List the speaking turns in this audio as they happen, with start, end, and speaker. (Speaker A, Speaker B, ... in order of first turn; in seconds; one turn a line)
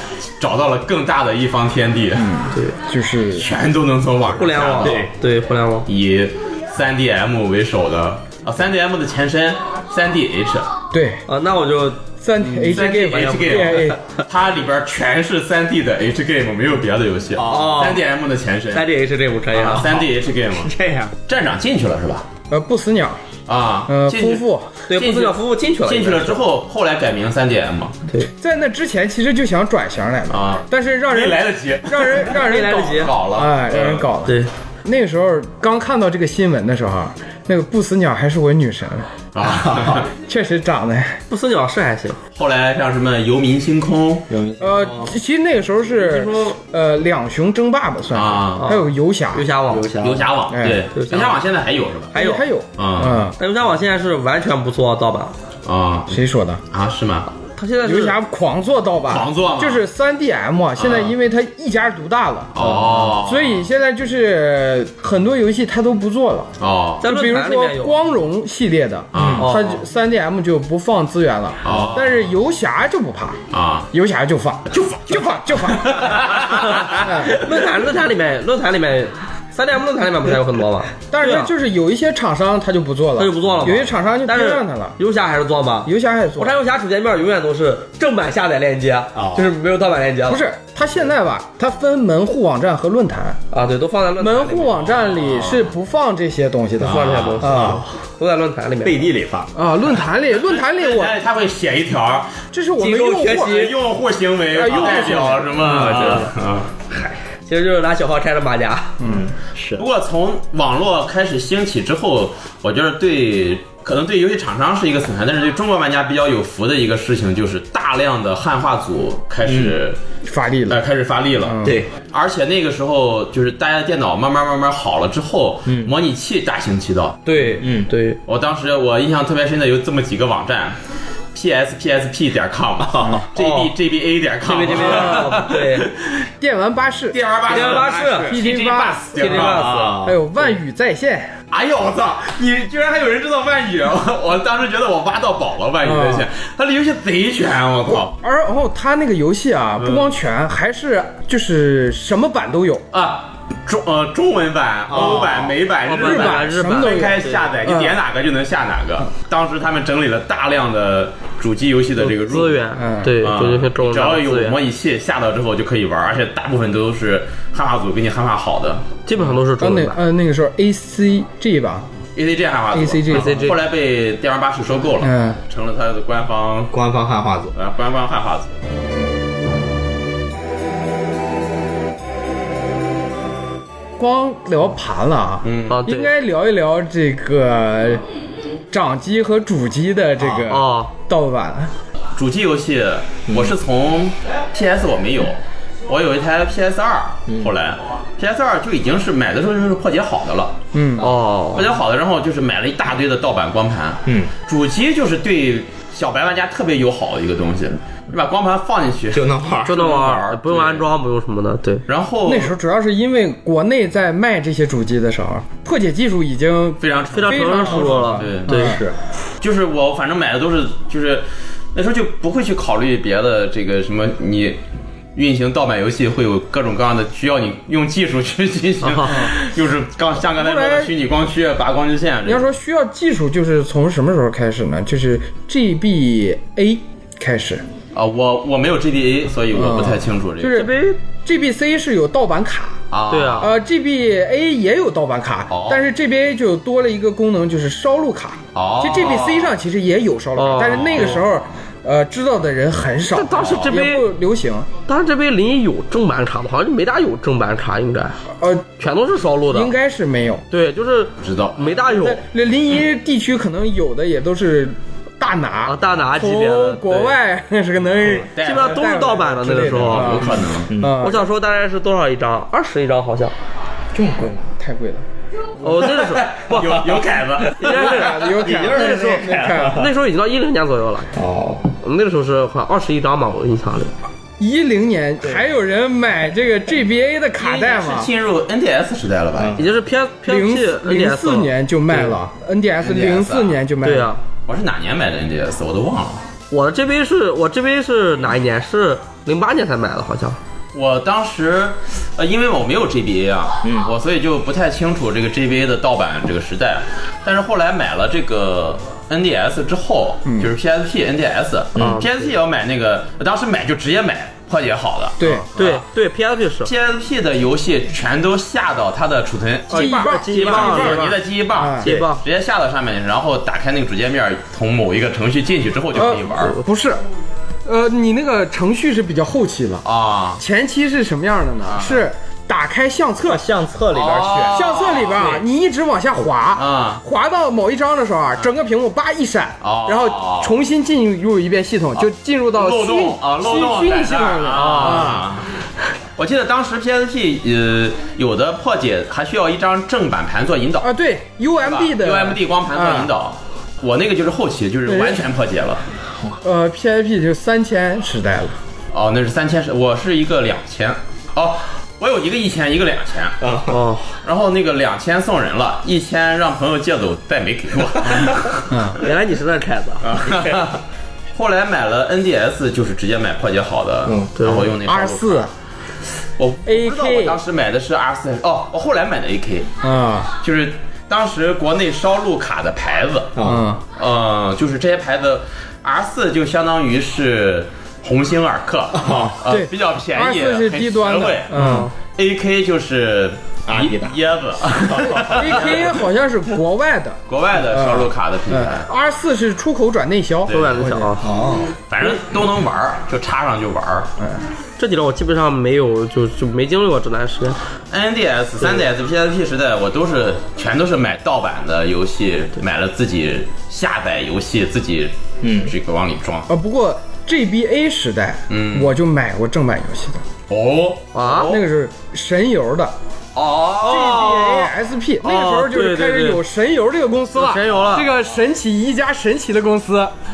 Speaker A: 0.4-2.3
Speaker B: 2.2-3.5
Speaker A: 3.3-5.0
Speaker C: 4.3-5.9
Speaker D: 4.8-5.1
Speaker A: 5.9-10.7
Speaker B: 10.9-11.2
Speaker C: 11.3-13.8
Speaker B: 12.2-14.0
Speaker A: 12.7-18.9
Speaker D: 17.4-18.1
Speaker C: 17.5-18.0
Speaker C: 18.7-20.0
Speaker D: 19.6-21.2
Speaker A: 19.6-20.7
Speaker A: 21.3-22.3
Speaker B: 22.5-23.2
Speaker A: 23.5-28.0
Speaker B: 23.9-24.8
Speaker C: 24.9-26.4
Speaker B: 28.2-39.1
Speaker A: 30.3-34.1
Speaker C: 32.2-33.1
Speaker C: 34.2-34.5
Speaker A: 39.4-40.1
Speaker D: 39.6-40.0
Speaker B: 40.2-41.2
Speaker C: 41.3-42.2
Speaker A: 42.4-44.3
Speaker D: 44.3-45.1
Speaker B: 44.6-49.5
Speaker C: 45.9-46.6
Speaker A: 48.1-48.7
Speaker C: 48.6-49.9
Speaker D: 49.7-50.3
Speaker A: 50.0-52.2
Speaker B: 50.5-50.9
Speaker C: 50.9-51.4
Speaker C: 52.1-52.5
Speaker B: 52.1-53.4
Speaker A: 52.8-53.3
Speaker C: 53.4-55.3
Speaker A: 55.6-56.2
Speaker B: 56.1-56.6
Speaker A: 56.7-57.3
Speaker C: 57.5-58.2
Speaker B: 57.8-66.5
Speaker A: 59.1-59.9
Speaker A: 60.8-61.1
Speaker A: 62.5-63.6
Speaker D: 62.6-63.1
Speaker A: 66.6-67.0
Speaker C: 67.0-68.0
Speaker B: 67.0-73.4
Speaker A: 69.1-69.5
Speaker D: 69.1-69.5
Speaker C: 69.4-69.8
Speaker A: 71.6-72.3
Speaker A: 73.5-73.9
Speaker B: 73.9-77.4
Speaker A: 74.7-77.3
Speaker C: 76.9-81.5
Speaker B: 81.1-85.0
Speaker C: 83.2-90.4
Speaker B: 85.8-86.6
Speaker D: 89.2-89.5
Speaker B: 90.3-93.4
Speaker C: 93.5-94.9
Speaker B: 94.2-97.8
Speaker A: 94.8-95.7
Speaker C: 96.8-99.0
Speaker D: 97.4-97.8
Speaker D: 98.8-99.5
Speaker B: 99.5-101.1
Speaker A: 100.3-102.3
Speaker B: 102.5-103.8
Speaker C: 102.8-103.8
Speaker A: 103.0-106.7
Speaker B: 104.5-106.3
Speaker C: 105.6-106.3
Speaker D: 106.9-107.2
Speaker C: 107.5-109.0
Speaker B: 109.0-109.3
Speaker D: 109.0-109.8
Speaker A: 109.8-120.0
Speaker D: 119.4-119.8
Speaker B: 120.2-120.8
Speaker A: 120.7-127.2
Speaker B: 121.4-121.8
Speaker D: 121.6-121.9
Speaker D: 125.7-125.9
Speaker C: 127.3-128.2
Speaker D: 127.5-127.9
Speaker A: 128.3-130.8
Speaker A: 131.3-136.3
Speaker D: 132.8-133.3
Speaker C: 133.4-133.7
Speaker C: 134.4-135.9
Speaker B: 136.4-141.4
Speaker A: 137.1-140.0
Speaker C: 137.5-138.3
Speaker D: 137.9-138.2
Speaker C: 139.2-140.1
Speaker D: 139.6-140.2
Speaker A: 141.5-148.1
Speaker B: 145.8-146.3
Speaker B: 147.9-152.8
Speaker A: 149.8-150.1
Speaker A: 152.9-162.7
Speaker D: 154.9-155.5
Speaker B: 154.9-158.0
Speaker C: 155.8-157.3
Speaker C: 162.0-164.6
Speaker B: 162.8-163.2
Speaker A: 163.2-168.9
Speaker C: 169.1-170.0
Speaker B: 169.6-171.9
Speaker A: 172.2-176.7
Speaker B: 172.7-173.5
Speaker C: 173.1-173.6
Speaker B: 175.0-175.4
Speaker D: 176.7-177.5
Speaker A: 177.5-178.6
Speaker B: 184.0-188.0
Speaker A: 185.4-185.8
Speaker C: 185.7-186.1
Speaker B: 188.7-191.7
Speaker D: 190.2-190.5
Speaker C: 190.5-190.9
Speaker A: 192.2-210.9
Speaker D: 193.3-193.5
Speaker B: 200.7-201.1
Speaker C: 201.0-201.7
Speaker D: 204.1-204.3
Speaker D: 209.1-209.9
Speaker C: 209.7-211.8
Speaker A: 211.9-212.6
Speaker B: 212.3-218.8
Speaker A: 216.8-218.6
Speaker C: 217.1-218.8
Speaker D: 218.5-219.0
Speaker A: 219.4-224.6
Speaker A: 225.2-232.5
Speaker C: 228.8-229.3
Speaker B: 229.1-229.3
Speaker B: 230.3-230.9
Speaker B: 232.3-237.7
Speaker A: 237.9-240.7
Speaker B: 239.5-242.8
Speaker C: 240.5-241.0
Speaker A: 242.9-243.5
Speaker C: 243.1-243.5
Speaker B: 243.4-254.7
Speaker A: 245.5-245.8
Speaker A: 248.6-249.6
Speaker C: 250.4-251.2
Speaker C: 253.1-254.1
Speaker C: 254.9-258.2
Speaker B: 258.4-258.7
Speaker C: 258.8-259.7
Speaker B: 259.5-260.4
Speaker C: 260.5-262.2
Speaker A: 261.2-261.8
Speaker B: 261.9-271.3
Speaker C: 265.6-267.2
Speaker A: 268.0-268.9
Speaker C: 268.4-270.2
Speaker A: 269.8-270.7
Speaker D: 270.7-271.1
Speaker C: 271.0-273.3
Speaker B: 273.9-275.1
Speaker C: 275.6-277.0
Speaker A: 276.0-278.2
Speaker B: 277.6-279.8
Speaker C: 277.6-281.1
Speaker D: 278.2-279.9
Speaker D: 281.1-281.7
Speaker C: 281.7-283.9
Speaker B: 284.4-288.1
Speaker A: 287.4-289.6
Speaker D: 289.4-289.8
Speaker C: 289.6-292.2
Speaker B: 290.3-294.1
Speaker A: 292.8-293.6
Speaker C: 293.8-294.2
Speaker A: 294.5-296.2
Speaker C: 296.5-300.4
Speaker A: 300.7-315.8
Speaker D: 303.6-303.9
Speaker C: 311.8-312.3
Speaker B: 315.2-315.5
Speaker C: 315.6-316.7
Speaker A: 316.6-326.6
Speaker C: 319.7-321.0
Speaker B: 319.7-322.0
Speaker C: 321.8-322.2
Speaker B: 325.9-327.0
Speaker B: 327.7-329.9
Speaker A: 329.9-330.4
Speaker B: 330.4-333.4
Speaker A: 331.6-332.1
Speaker D: 333.2-334.6
Speaker A: 333.9-335.4
Speaker B: 334.2-345.3
Speaker A: 336.6-337.0
Speaker A: 339.6-340.6
Speaker A: 342.5-345.5
Speaker C: 344.6-345.1
Speaker A: 346.2-350.9
Speaker B: 350.8-353.1
Speaker A: 351.6-355.8
Speaker B: 354.9-355.2
Speaker B: 356.4-358.6
Speaker A: 358.9-363.4
Speaker D: 363.4-363.8
Speaker C: 363.7-364.1
Speaker A: 364.2-368.9
Speaker B: 368.1-369.0
Speaker C: 369.0-370.0
Speaker A: 370.0-370.8
Speaker A: 371.3-375.5
Speaker D: 374.1-374.4
Speaker C: 374.4-374.7
Speaker B: 374.8-375.5
Speaker A: 376.4-379.7
Speaker B: 376.7-377.4
Speaker B: 379.8-380.3
Speaker A: 380.4-383.4
Speaker D: 383.4-383.6
Speaker B: 383.4-383.8
Speaker A: 383.9-396.0
Speaker D: 388.9-389.4
Speaker B: 389.5-391.9
Speaker C: 391.5-391.9
Speaker D: 391.6-391.9
Speaker D: 393.7-394.2
Speaker D: 394.8-395.8
Speaker B: 395.3-401.1
Speaker A: 397.3-398.9
Speaker A: 400.5-400.9
Speaker C: 400.5-401.3
Speaker D: 401.2-401.7
Speaker A: 401.8-404.1
Speaker C: 404.8-407.6
Speaker A: 407.9-416.5
Speaker D: 415.4-415.7
Speaker B: 416.5-420.2
Speaker A: 418.5-418.9
Speaker A: 420.5-421.6
Speaker C: 421.1-421.6
Speaker B: 421.4-422.9
Speaker A: 423.4-424.7
Speaker C: 423.8-424.6
Speaker B: 423.8-430.1
Speaker C: 425.2-426.4
Speaker C: 427.4-428.1